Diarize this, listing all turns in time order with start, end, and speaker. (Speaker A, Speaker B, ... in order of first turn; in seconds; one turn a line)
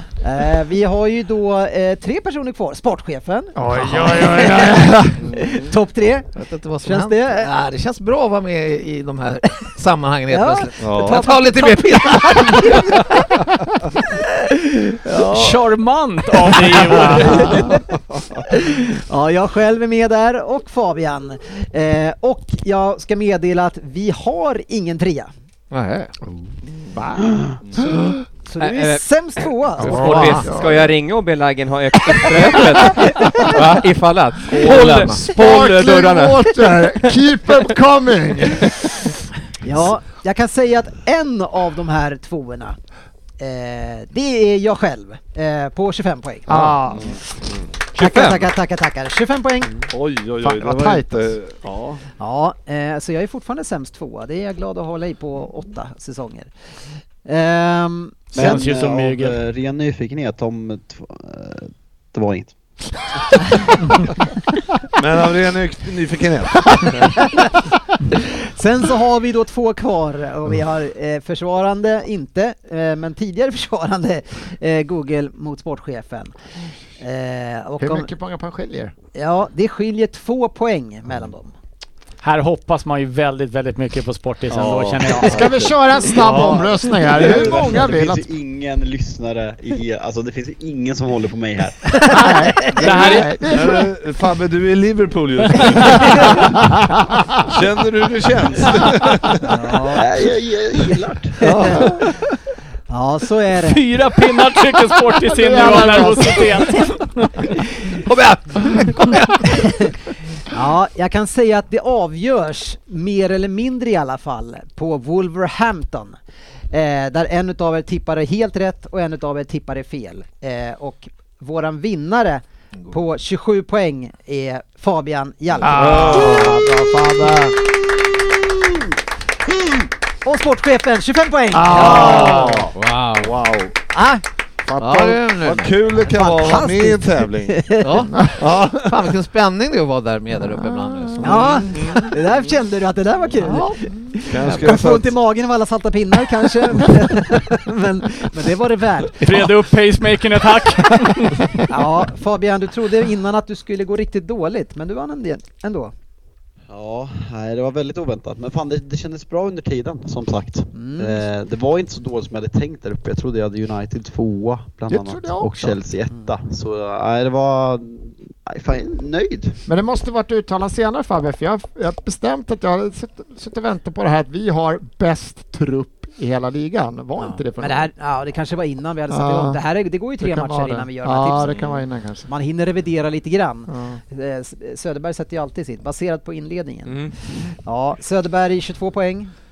Speaker A: 0.2-6.3
Speaker B: 3.5-5.3
Speaker C: 5.2-5.7
Speaker D: 6.3-13.0
Speaker A: 6.8-7.5
Speaker A: 10.3-13.3
Speaker C: 10.8-11.2
Speaker A: 15.0-15.6
Speaker E: 15.3-17.7
Speaker A: 16.7-17.8
Speaker B: 17.3-17.7
Speaker A: 18.5-25.3
Speaker D: 25.7-26.2
Speaker B: 26.9-28.1
Speaker C: 27.6-27.9
Speaker A: 28.5-30.4
Speaker F: 28.6-29.0
Speaker F: 29.8-36.9
Speaker B: 29.8-30.9
Speaker D: 30.0-30.4
Speaker B: 32.4-33.1
Speaker D: 34.5-35.3
Speaker B: 34.6-38.9
Speaker A: 39.6-42.8
Speaker A: 43.4-46.6
Speaker B: 46.5-47.1
Speaker C: 46.5-47.2
Speaker A: 48.0-49.8
Speaker F: 48.1-48.4
Speaker C: 49.9-52.0
Speaker B: 50.4-51.4
Speaker A: 52.2-56.5
Speaker A: 57.2-58.4
Speaker E: 58.3-59.4
Speaker G: 58.3-62.5
Speaker C: 65.0-67.3
Speaker A: 67.0-67.5
Speaker A: 68.4-76.4
Speaker A: 77.0-78.1
Speaker B: 77.8-78.9
Speaker A: 79.2-81.5
Speaker E: 82.2-85.6
Speaker C: 84.5-87.8
Speaker B: 85.2-88.3
Speaker G: 86.0-86.5
Speaker G: 87.0-92.3
Speaker A: 91.9-92.9
Speaker B: 92.1-93.9
Speaker E: 92.8-93.4
Speaker C: 93.0-96.7
Speaker B: 95.8-97.5
Speaker A: 95.9-96.4
Speaker C: 97.4-99.5
Speaker A: 99.5-100.1
Speaker G: 99.9-101.4
Speaker C: 101.4-102.1
Speaker A: 101.4-102.0
Speaker A: 102.9-103.8
Speaker E: 103.6-107.5
Speaker B: 105.3-106.8
Speaker A: 105.7-106.1
Speaker D: 108.1-108.5
Speaker A: 109.4-116.2
Speaker A: 116.7-126.7
Speaker B: 125.6-127.6
Speaker C: 125.7-126.7
Speaker A: 130.2-132.6
Speaker B: 131.5-132.7
Speaker C: 131.7-133.7
Speaker D: 132.7-133.3
Speaker A: 133.9-134.2
Speaker C: 134.7-139.1
Speaker D: 134.8-135.7
Speaker A: 136.1-138.1
Speaker D: 137.8-141.6
Speaker B: 140.5-141.6
Speaker C: 141.2-142.1
Speaker A: 141.2-149.5
Speaker B: 143.4-143.9
Speaker C: 144.3-145.1
Speaker E: 149.2-151.6
Speaker A: 151.7-155.9
Speaker G: 156.7-169.6
Speaker A: 160.7-161.3
Speaker B: 164.9-165.8
Speaker B: 169.7-177.9
Speaker A: 177.2-181.6
Speaker B: 179.1-179.6
Speaker B: 180.2-182.3
Speaker C: 181.5-181.8
Speaker A: 182.3-189.3
Speaker B: 183.7-184.0
Speaker F: 186.9-187.2